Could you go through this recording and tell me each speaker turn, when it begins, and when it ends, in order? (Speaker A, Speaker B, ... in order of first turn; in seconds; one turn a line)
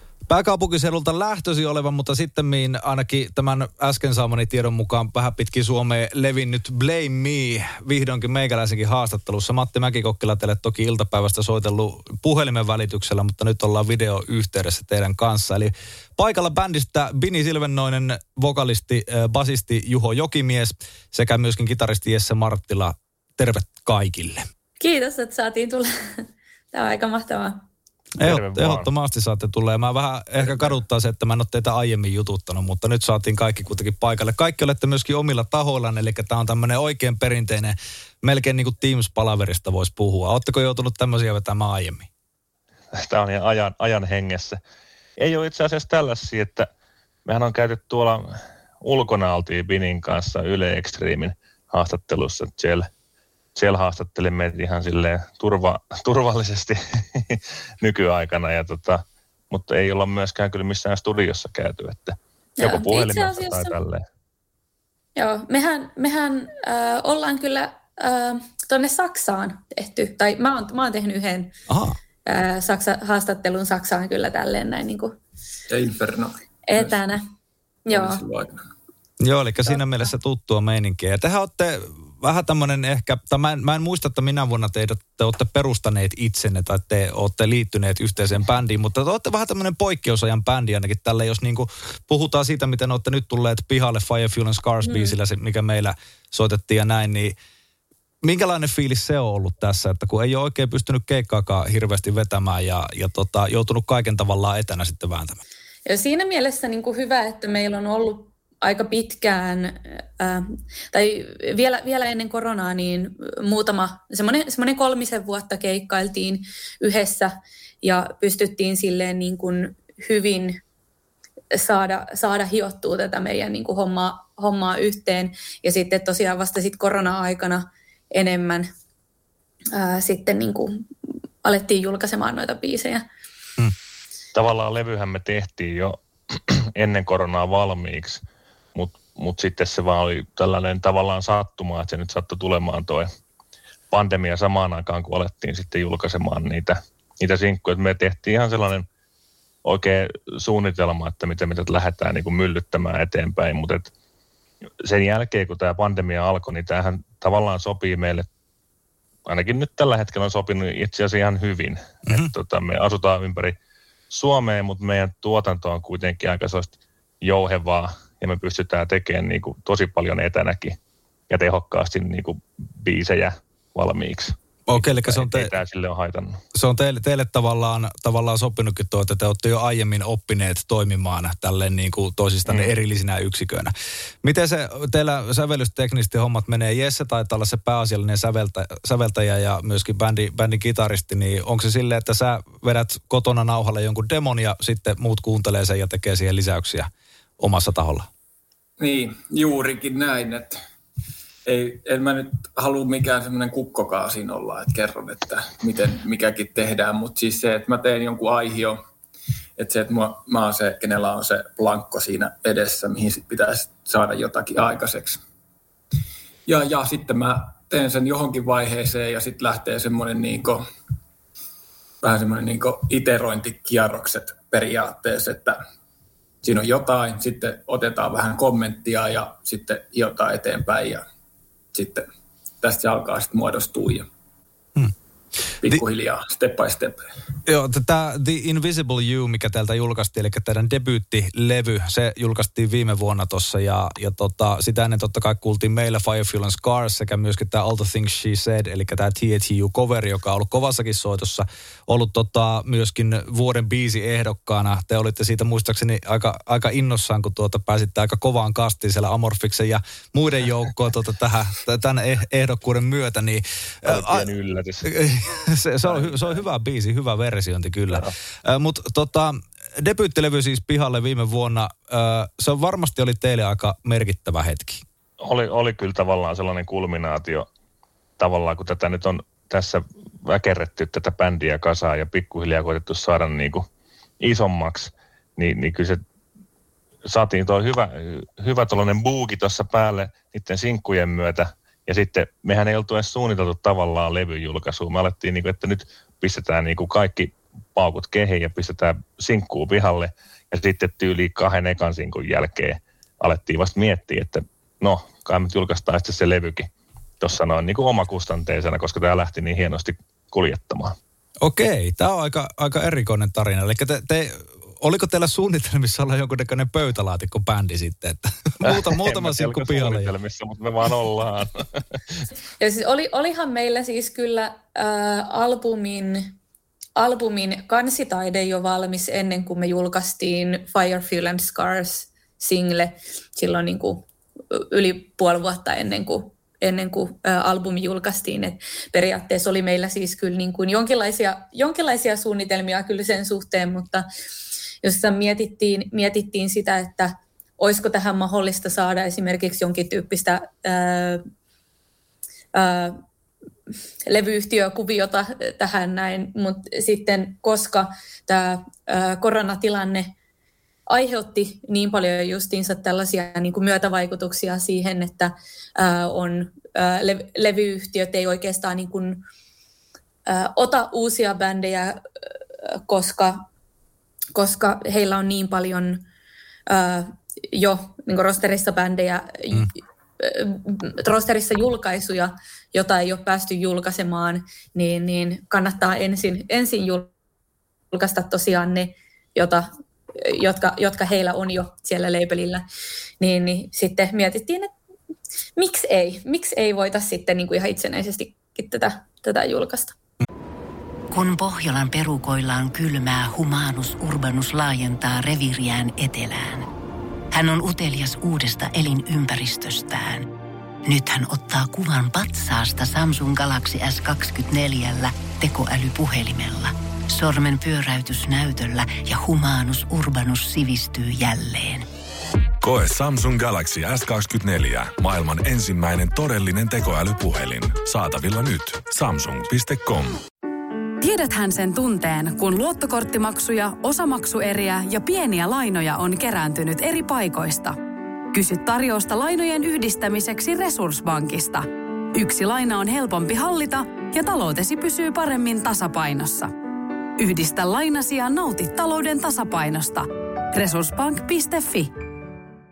Speaker A: 0.3-24.5
Speaker B: 24.8-25.9
Speaker B: 26.7-27.6
Speaker A: 28.2-42.1
Speaker C: 28.2-28.9
Speaker C: 43.0-44.6
Speaker C: 45.2-46.7
Speaker C: 47.2-48.2
Speaker C: 48.8-52.9
Speaker C: 53.5-64.0
Speaker B: 62.6-63.7
Speaker B: 65.2-71.5
Speaker A: 71.7-72.0
Speaker B: 72.2-75.1
Speaker D: 75.7-77.0
Speaker B: 76.7-77.2
Speaker B: 77.9-78.2
Speaker D: 77.9-78.6
Speaker A: 79.2-97.3
Speaker B: 94.8-95.1
Speaker A: 98.2-105.4
Speaker B: 105.8-117.3
Speaker B: 117.8-120.6
Speaker B: 121.5-128.7
Speaker B: 129.7-130.8
Speaker B: 131.4-133.0
Speaker C: 134.3-138.2
Speaker C: 138.8-143.1
Speaker C: 143.9-148.9
Speaker C: 149.7-153.9
Speaker C: 154.9-158.2
Speaker C: 159.3-163.6
Speaker C: 164.1-170.8
Speaker C: 171.3-176.3
Speaker A: 174.7-175.5
Speaker A: 176.6-183.7
Speaker A: 184.2-196.9
Speaker A: 197.4-198.1
Speaker D: 198.8-200.6
Speaker D: 201.5-208.8
Speaker D: 209.6-215.2
Speaker D: 216.5-220.6
Speaker D: 222.0-225.6
Speaker D: 226.4-231.0
Speaker D: 231.7-232.1
Speaker D: 232.6-234.1
Speaker D: 235.6-237.0
Speaker A: 237.5-264.3
Speaker C: 263.9-264.9
Speaker A: 264.8-274.8
Speaker C: 265.8-266.4
Speaker C: 275.2-277.4
Speaker C: 278.2-283.6
Speaker C: 284.2-286.0
Speaker C: 287.1-306.7
Speaker C: 307.2-310.9
Speaker A: 311.4-320.1
Speaker C: 318.7-322.2
Speaker B: 322.6-326.3
Speaker B: 326.9-344.0
Speaker B: 344.8-351.2
Speaker B: 352.5-352.9
Speaker B: 354.1-360.1
Speaker B: 360.9-369.2
Speaker B: 370.3-372.0
Speaker B: 372.9-373.4
Speaker B: 374.3-376.0
Speaker B: 376.7-387.1
Speaker B: 387.9-389.7
Speaker B: 390.2-392.6
Speaker B: 393.2-394.7
Speaker B: 395.6-399.9
Speaker E: 401.1-406.7
Speaker E: 407.3-410.2
Speaker E: 410.9-421.8
Speaker F: 422.6-430.2
Speaker G: 431.0-437.8
Speaker G: 438.3-446.5
Speaker G: 447.2-451.9